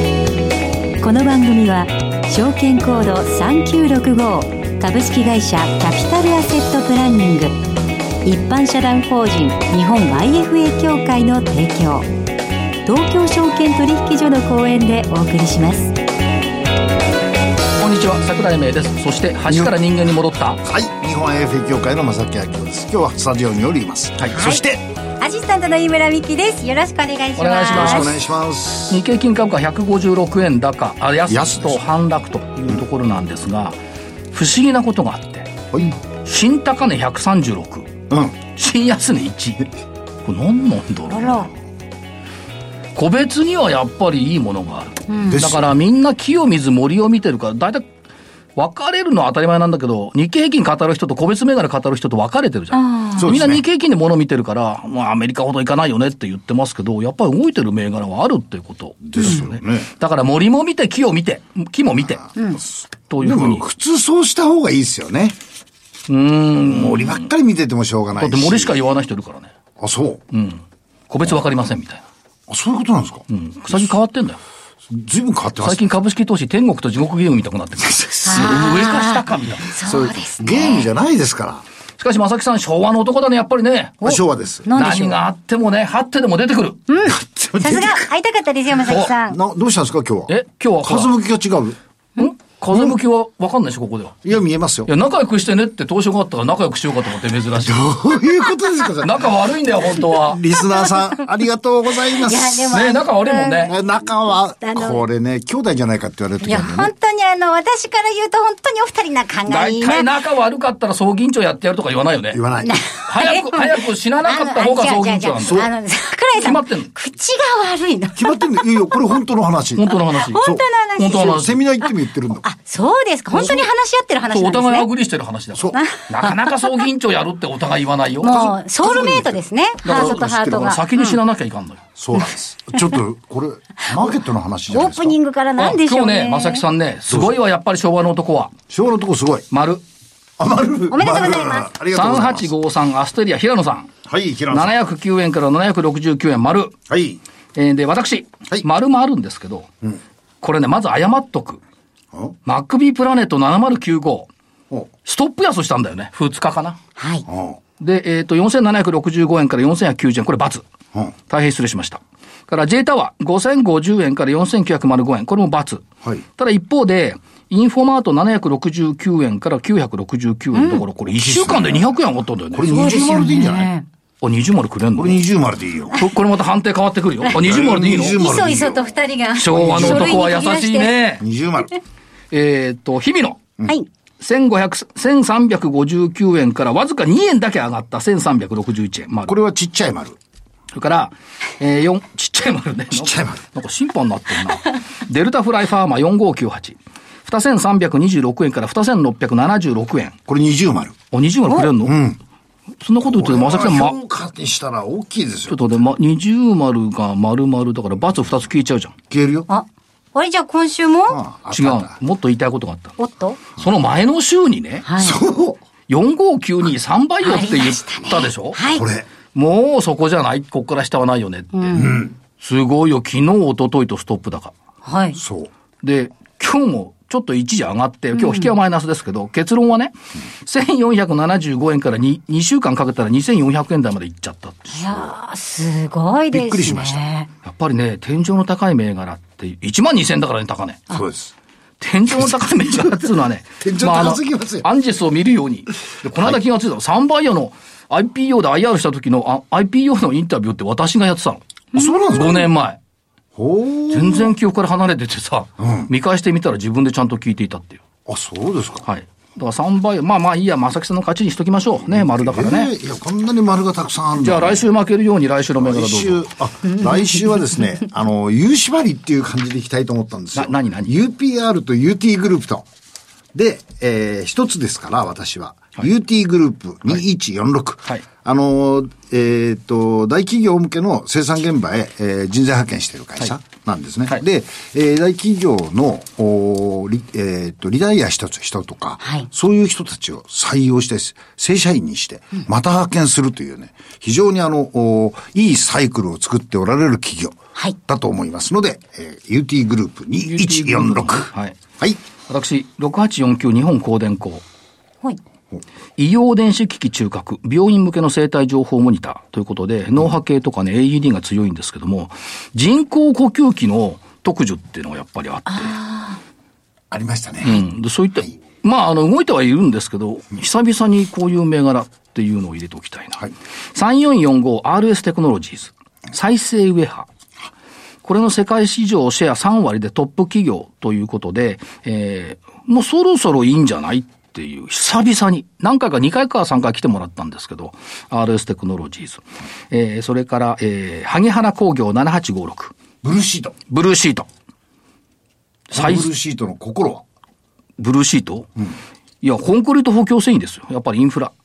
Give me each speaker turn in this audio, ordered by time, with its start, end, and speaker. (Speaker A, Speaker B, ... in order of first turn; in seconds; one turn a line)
Speaker A: 1.0-7.5
Speaker A: 8.2-12.1
Speaker A: 12.8-15.9
Speaker B: 17.8-20.6
Speaker C: 19.5-19.7
Speaker C: 20.6-24.8
Speaker A: 24.3-24.6
Speaker A: 25.2-28.1
Speaker B: 27.4-28.1
Speaker C: 27.7-29.0
Speaker B: 28.9-33.8
Speaker C: 31.3-31.8
Speaker B: 34.3-35.5
Speaker B: 36.2-37.9
Speaker C: 38.1-38.4
Speaker B: 38.4-39.7
Speaker B: 40.2-41.5
Speaker A: 41.1-41.5
Speaker B: 42.9-47.9
Speaker A: 45.1-45.4
Speaker C: 45.3-45.7
Speaker B: 48.5-62.3
Speaker A: 52.7-53.4
Speaker C: 53.2-53.6
Speaker C: 59.0-59.9
Speaker A: 62.4-62.6
Speaker B: 63.1-63.6
Speaker C: 63.2-65.4
Speaker B: 66.1-67.3
Speaker C: 66.6-68.8
Speaker B: 68.2-69.5
Speaker C: 69.8-70.2
Speaker B: 70.3-72.0
Speaker C: 72.5-73.9
Speaker B: 73.3-74.4
Speaker C: 74.9-75.9
Speaker B: 75.6-79.7
Speaker C: 77.8-79.1
Speaker A: 78.2-80.8
Speaker C: 79.8-81.6
Speaker B: 82.0-84.2
Speaker A: 84.0-85.2
Speaker C: 84.0-84.9
Speaker B: 84.7-86.8
Speaker A: 86.9-89.4
Speaker C: 87.0-88.0
Speaker C: 88.9-91.8
Speaker B: 90.3-91.1
Speaker B: 92.2-94.2
Speaker C: 94.2-94.9
Speaker B: 94.9-97.8
Speaker C: 97.6-99.3
Speaker B: 99.0-100.4
Speaker C: 100.1-102.8
Speaker A: 102.2-103.7
Speaker B: 102.7-103.7
Speaker C: 103.6-106.9
Speaker A: 104.6-105.0
Speaker A: 106.4-110.1
Speaker B: 109.5-112.4
Speaker C: 112.3-112.8
Speaker A: 112.6-118.4
Speaker B: 113.1-115.7
Speaker C: 115.4-115.7
Speaker B: 116.3-116.9
Speaker C: 118.1-122.4
Speaker B: 119.8-120.4
Speaker A: 120.2-121.8
Speaker B: 121.0-121.6
Speaker A: 122.4-124.9
Speaker B: 123.3-123.7
Speaker B: 124.3-128.5
Speaker C: 125.5-125.8
Speaker A: 125.7-126.8
Speaker A: 128.2-131.2
Speaker C: 128.3-130.7
Speaker B: 129.8-131.8
Speaker C: 131.9-135.2
Speaker A: 134.7-136.6
Speaker B: 135.6-138.5
Speaker C: 137.1-137.3
Speaker C: 138.7-139.4
Speaker B: 139.5-139.8
Speaker C: 140.4-142.5
Speaker A: 140.9-141.7
Speaker B: 141.9-143.9
Speaker C: 144.0-144.7
Speaker B: 144.5-146.8
Speaker C: 146.9-147.2
Speaker B: 147.5-149.7
Speaker B: 150.4-151.6
Speaker B: 152.4-154.3
Speaker B: 155.0-156.8
Speaker A: 157.0-157.2
Speaker C: 157.3-157.6
Speaker B: 157.8-160.6
Speaker B: 161.3-165.8
Speaker B: 166.4-173.0
Speaker A: 170.5-170.8
Speaker C: 171.1-171.8
Speaker C: 172.5-173.7
Speaker A: 172.7-173.8
Speaker B: 174.2-175.2
Speaker C: 174.9-176.1
Speaker B: 175.9-178.2
Speaker C: 177.3-178.8
Speaker A: 178.2-181.0
Speaker B: 179.4-181.2
Speaker C: 179.5-180.3
Speaker C: 181.2-181.7
Speaker B: 182.3-183.4
Speaker B: 184.2-189.3
Speaker C: 189.3-190.2
Speaker B: 190.7-200.2
Speaker C: 192.9-193.4
Speaker C: 200.3-200.9
Speaker B: 201.1-201.9
Speaker C: 201.6-202.2
Speaker B: 202.8-204.0
Speaker C: 203.0-205.8
Speaker B: 205.5-208.9
Speaker C: 209.1-209.5
Speaker A: 209.5-211.2
Speaker C: 211.1-211.9
Speaker B: 211.5-213.0
Speaker A: 213.0-213.4
Speaker B: 213.6-214.8
Speaker A: 214.8-215.2
Speaker C: 215.0-215.6
Speaker B: 215.9-218.6
Speaker A: 217.2-218.8
Speaker C: 218.6-219.1
Speaker B: 219.3-224.5
Speaker A: 221.5-222.0
Speaker C: 221.7-222.1
Speaker A: 224.8-225.2
Speaker C: 225.2-225.5
Speaker B: 225.8-234.8
Speaker A: 228.1-228.5
Speaker A: 234.7-237.3
Speaker C: 236.3-237.0
Speaker B: 237.4-240.9
Speaker C: 240.9-241.3
Speaker B: 241.8-251.4
Speaker C: 242.2-242.9
Speaker C: 243.6-244.7
Speaker C: 251.7-252.5
Speaker B: 252.1-252.8
Speaker C: 253.3-254.3
Speaker B: 253.9-257.8
Speaker C: 255.6-255.9
Speaker C: 258.1-258.9
Speaker B: 258.8-262.7
Speaker C: 261.8-264.6
Speaker B: 264.2-266.2
Speaker C: 265.6-272.6
Speaker B: 270.3-270.9
Speaker C: 273.3-302.0
Speaker A: 289.0-289.3
Speaker B: 300.2-301.6
Speaker B: 302.3-304.4
Speaker B: 306.0-315.8
Speaker A: 315.5-316.2
Speaker C: 316.9-317.6
Speaker B: 317.4-323.2
Speaker B: 323.7-327.1
Speaker B: 328.0-342.7
Speaker C: 343.0-343.6
Speaker B: 343.7-344.3
Speaker B: 345.7-346.1
Speaker C: 345.7-347.0
Speaker B: 347.8-348.5
Speaker B: 349.2-351.3